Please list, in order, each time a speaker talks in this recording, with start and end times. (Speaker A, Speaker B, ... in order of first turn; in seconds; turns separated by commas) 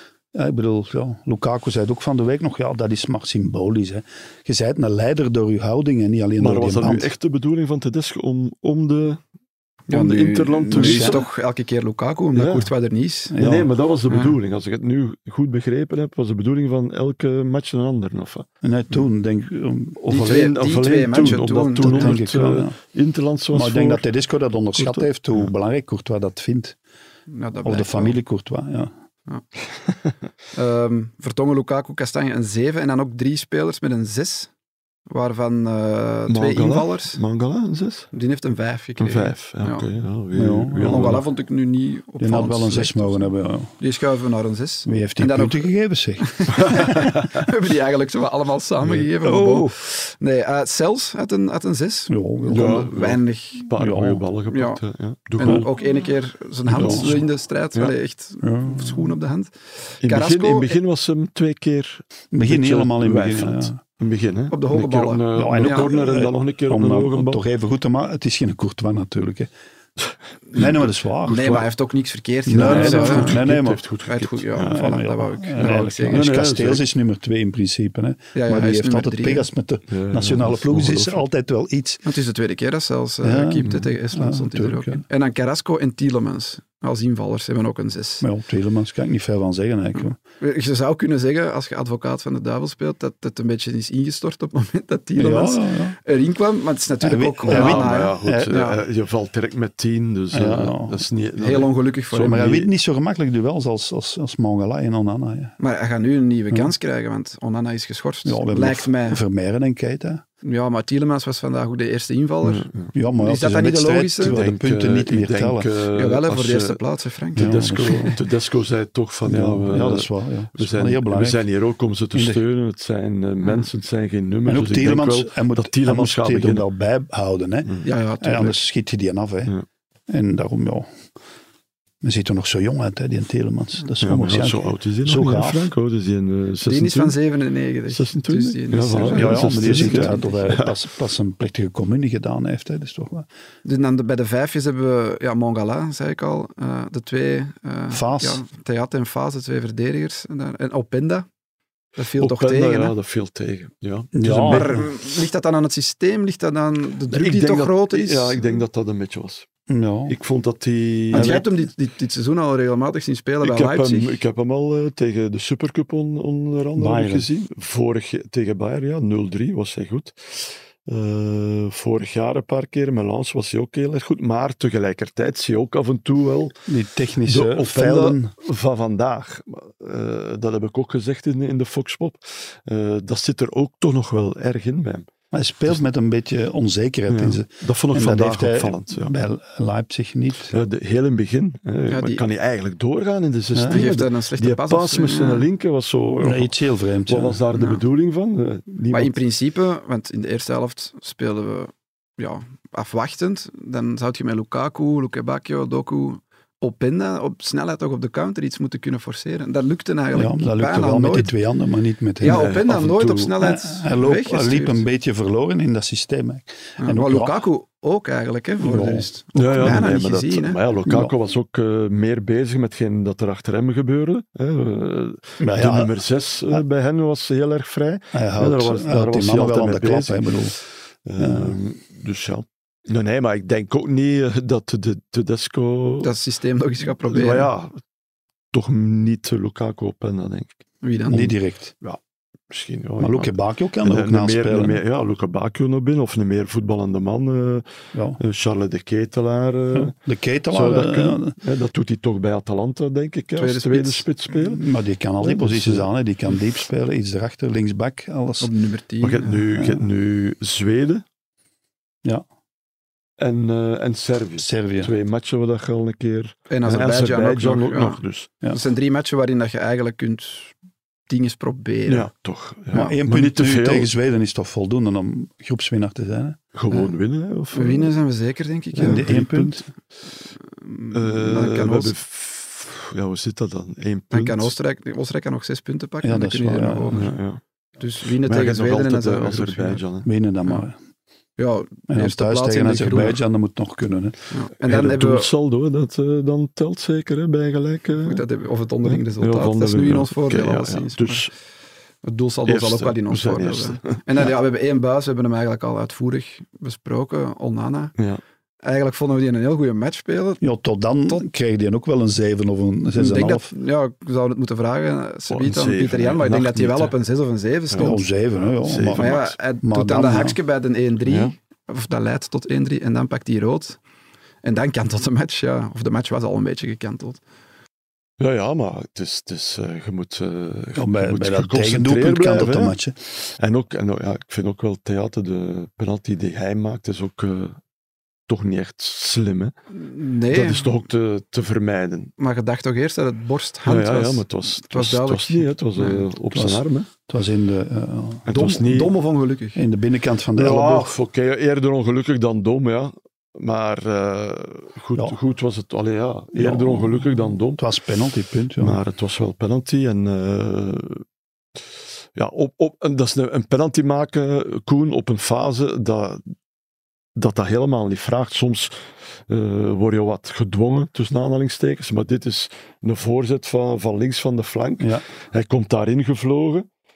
Speaker A: 0.3-7.1, Speaker B: 6.4-9.2, Speaker C: 9.9-13.3, Speaker B: 9.9-11.2, Speaker A: 10.8-11.2, Speaker B: 12.3-12.7, Speaker A: 13.3-13.7, Speaker B: 13.4-18.5, Speaker C: 14.1-14.4, Speaker A: 18.6-20.0, Speaker B: 20.0-24.1, Speaker C: 20.1-22.2, Speaker A: 21.8-22.8, Speaker A: 23.5-26.8, Speaker B: 24.8-25.5, Speaker C: 27.3-28.2, Speaker A: 27.6-28.9, Speaker B: 29.8-30.1, Speaker C: 30.5-34.5, Speaker C: 35.1-37.2, Speaker B: 36.3-38.1, Speaker C: 38.1-39.9, Speaker B: 39.0-41.2, Speaker A: 40.4-41.2, Speaker C: 40.8-45.7, Speaker A: 42.2-43.7, Speaker A: 44.9-47.1, Speaker C: 46.2-53.7, Speaker B: 46.5-47.3, Speaker A: 49.2-49.8, Speaker A: 52.1-52.9, Speaker B: 52.5-55.7, Speaker A: 53.8-54.2, Speaker C: 54.5-54.8, Speaker C: 55.4-60.8, Speaker A: 56.7-57.2, Speaker B: 56.7-57.2, Speaker A: 58.4-59.1, Speaker B: 60.0-67.4, Speaker A: 62.3-63.8, Speaker C: 64.5-65.9, Speaker A: 65.3-69.5, Speaker B: 70.0-70.8, Speaker A: 70.5-71.6, Speaker C: 71.3-73.4, Speaker B: 71.3-71.6, Speaker A: 72.5-73.8, Speaker B: 72.5-74.9, Speaker C: 74.1-76.3, Speaker A: 74.6-82.0, Speaker B: 75.6-76.8, Speaker C: 78.3-79.5, Speaker B: 79.9-81.2, Speaker C: 82.0-88.2, Speaker A: 83.2-85.0, Speaker A: 88.2-90.2, Speaker C: 90.4-98.8, Speaker A: 95.2-96.0, Speaker A: 97.0-98.5, Speaker B: 97.4-102.7, Speaker A: 100.3-101.0, Speaker C: 101.4-102.4, Speaker A: 102.2-105.5, Speaker C: 105.6-109.2, Speaker A: 108.2-110.2, Speaker C: 110.4-112.7, Speaker B: 112.4-112.9, Speaker A: 112.9-115.7, Speaker C: 113.2-114.4, Speaker B: 114.2-116.8, Speaker C: 115.9-117.6, Speaker A: 117.4-118.2, Speaker B: 117.4-126.6, Speaker A: 119.2-121.4, Speaker A: 122.1-122.4, Speaker A: 124.5-129.5, Speaker C: 127.8-128.6, Speaker A: 130.1-130.9, Speaker A: 132.0-135.7, Speaker B: 134.0-137.2, Speaker C: 136.6-140.4, Speaker B: 137.9-140.8, Speaker A: 139.1-143.3, Speaker C: 143.6-151.3, Speaker A: 147.9-148.4, Speaker C: 152.0-152.9, Speaker B: 152.2-154.9, Speaker A: 154.1-154.9, Speaker C: 154.4-158.4, Speaker B: 157.1-159.5, Speaker A: 159.7-160.2, Speaker B: 160.1-161.4, Speaker C: 161.1-164.1, Speaker A: 161.1-161.5, Speaker B: 163.4-176.6, Speaker A: 166.8-167.3, Speaker A: 176.7-178.3, Speaker B: 177.3-185.1, Speaker A: 185.3-190.6, Speaker B: 187.1-189.2, Speaker B: 190.5-196.6, Speaker C: 191.9-192.2, Speaker A: 193.5-193.8, Speaker C: 193.7-195.5, Speaker A: 196.2-197.4, Speaker B: 197.1-199.2, Speaker C: 197.5-197.8, Speaker C: 198.9-211.3, Speaker A: 210.1-212.5, Speaker C: 212.2-214.8, Speaker B: 212.2-213.3, Speaker A: 213.3-217.4, Speaker C: 216.8-220.6, Speaker A: 218.6-219.1, Speaker B: 219.3-236.1, Speaker A: 220.9-221.1, Speaker A: 225.4-225.9, Speaker A: 228.1-230.5, Speaker A: 231.2-231.6, Speaker C: 236.0-237.5, Speaker B: 237.1-237.8, Speaker B: 238.5-240.6, Speaker C: 240.8-241.3, Speaker A: 241.1-241.7, Speaker B: 242.5-249.9, Speaker A: 243.0-244.8, Speaker A: 247.9-248.2, Speaker A: 249.7-251.3, Speaker B: 250.5-254.6, Speaker C: 253.4-254.1, Speaker A: 254.4-258.5, Speaker B: 255.2-255.9, Speaker C: 258.4-259.4, Speaker B: 259.0-261.0, Speaker A: 259.6-259.9, Speaker B: 263.2-268.3, Speaker A: 264.4-264.9, Speaker C: 266.5-270.5, Speaker C: 271.1-272.1, Speaker B: 271.9-273.9, Speaker A: 272.7-276.4, Speaker B: 276.5-277.9, Speaker C: 277.5-279.1, Speaker B: 278.8-279.6, Speaker A: 278.8-279.6, Speaker C: 280.5-281.9, Speaker B: 280.9-284.5, Speaker C: 284.1-287.1, Speaker A: 286.0-287.1, Speaker B: 286.9-287.4, Speaker C: 287.8-289.8, Speaker B: 288.0-290.1, Speaker A: 290.1-290.8, Speaker C: 291.4-293.2, Speaker A: 291.9-294.1, Speaker C: 294.3-295.3, Speaker B: 294.6-298.2, Speaker C: 298.0-301.3, Speaker B: 298.9-301.3, Speaker C: 302.0-307.9, Speaker B: 302.5-304.3, Speaker C: 308.6-310.4, Speaker A: 310.4-313.5, Speaker C: 312.9-318.0, Speaker B: 315.3-317.0, Speaker A: 317.8-320.4, Speaker B: 318.6-319.4, Speaker C: 318.9-323.8, Speaker B: 321.1-321.3, Speaker C: 324.4-327.2, Speaker B: 328.2-337.6, Speaker A: 330.8-332.9, Speaker B: 338.3-339.5, Speaker C: 339.7-340.8, Speaker B: 340.3-342.1, Speaker C: 342.2-346.1, Speaker B: 343.6-346.9, Speaker A: 346.3-348.3, Speaker B: 348.3-348.9, Speaker C: 348.3-349.6, Speaker A: 349.6-350.9, Speaker B: 350.3-357.6, Speaker A: 356.3-358.8, Speaker B: 358.6-361.0, Speaker B: 362.1-366.3, Speaker B: 367.1-376.7, Speaker A: 374.8-375.1